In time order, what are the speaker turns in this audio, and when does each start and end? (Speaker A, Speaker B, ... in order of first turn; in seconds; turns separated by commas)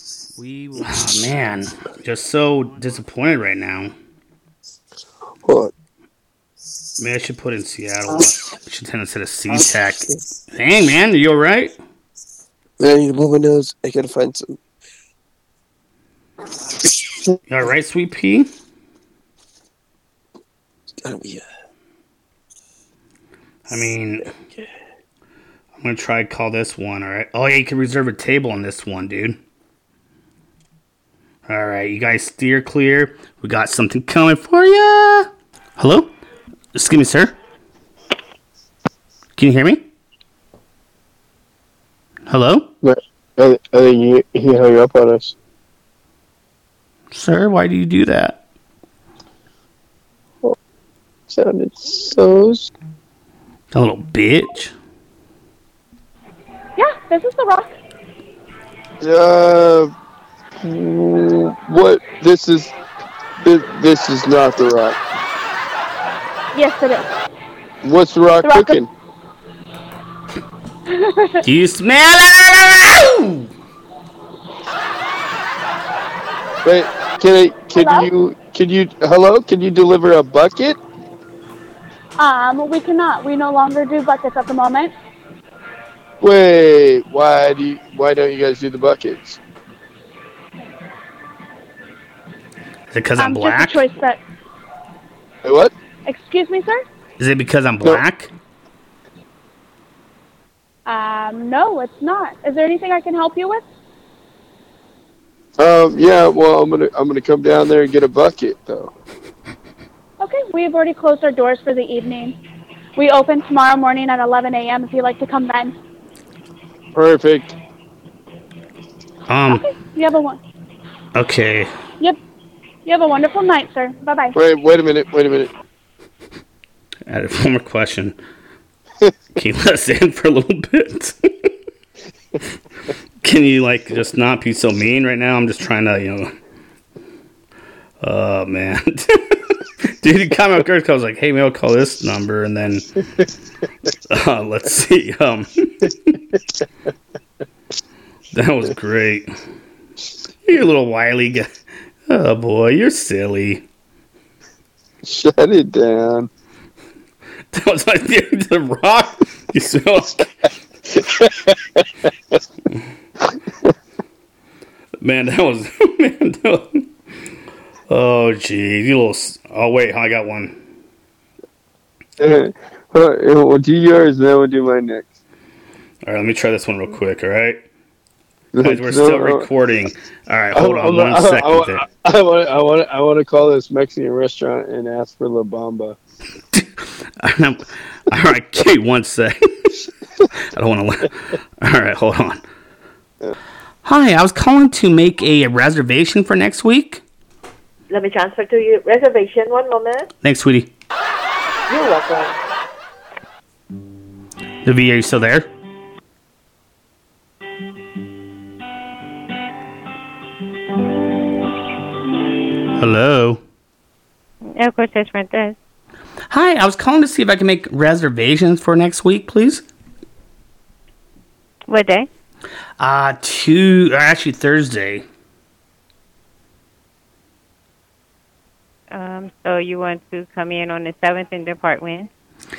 Speaker A: 0.4-3.9, Speaker B: 5.4-5.7, Speaker A: 7.0-11.8, Speaker B: 9.5-10.2, Speaker B: 12.8-14.6, Speaker B: 16.8-17.4, Speaker A: 17.5-18.5, Speaker B: 21.0-21.4, Speaker A: 23.7-24.3, Speaker B: 24.4-24.7, Speaker A: 25.8-29.4, Speaker A: 31.5-36.1, Speaker A: 36.7-37.3, Speaker A: 39.4-39.8, Speaker A: 42.3-42.7, Speaker B: 42.8-45.3, Speaker A: 47.1-48.4, Speaker B: 51.3-52.7, Speaker A: 53.7-54.7, Speaker C: 56.8-57.7, Speaker B: 59.0-59.9, Speaker B: 60.6-62.7, Speaker B: 63.4-65.0, Speaker C: 66.5-67.1, Speaker B: 67.8-68.9, Speaker C: 68.4-68.8, Speaker C: 70.9-71.4, Speaker A: 71.4-73.5, Speaker B: 76.6-80.8, Speaker C: 77.7-78.1, Speaker C: 82.2-84.9, Speaker B: 86.2-89.4, Speaker A: 92.9-93.8, Speaker C: 93.2-94.2, Speaker B: 95.4-95.7, Speaker C: 96.0-96.8, Speaker A: 97.2-98.3, Speaker C: 100.8-103.6, Speaker B: 105.6-108.9, Speaker C: 110.2-112.3, Speaker C: 113.0-115.7, Speaker B: 116.9-117.5, Speaker A: 119.3-119.6, Speaker C: 119.5-120.4, Speaker A: 121.1-121.7, Speaker C: 122.8-124.3, Speaker B: 124.3-125.5, Speaker A: 127.1-128.2, Speaker A: 129.3-131.2, Speaker A: 133.2-136.3, Speaker A: 138.0-142.8, Speaker A: 144.1-146.2, Speaker A: 148.3-149.3, Speaker A: 150.4-151.5, Speaker A: 152.1-153.6, Speaker B: 155.0-156.3, Speaker A: 157.5-160.3, Speaker B: 160.9-161.8, Speaker A: 165.0-166.8, Speaker A: 167.9-170.6, Speaker B: 172.2-175.1, Speaker A: 176.0-177.6, Speaker B: 178.5-179.5, Speaker A: 178.6-181.8, Speaker B: 180.5-186.0, Speaker A: 186.5-189.7, Speaker A: 190.4-192.4, Speaker A: 193.8-197.0, Speaker D: 197.9-200.1, Speaker A: 200.2-200.7, Speaker D: 201.7-202.3, Speaker A: 204.6-205.5, Speaker A: 212.7-213.4, Speaker E: 214.6-215.6, Speaker A: 216.3-219.6, Speaker E: 221.7-222.1, Speaker A: 222.8-225.0, Speaker E: 228.9-232.1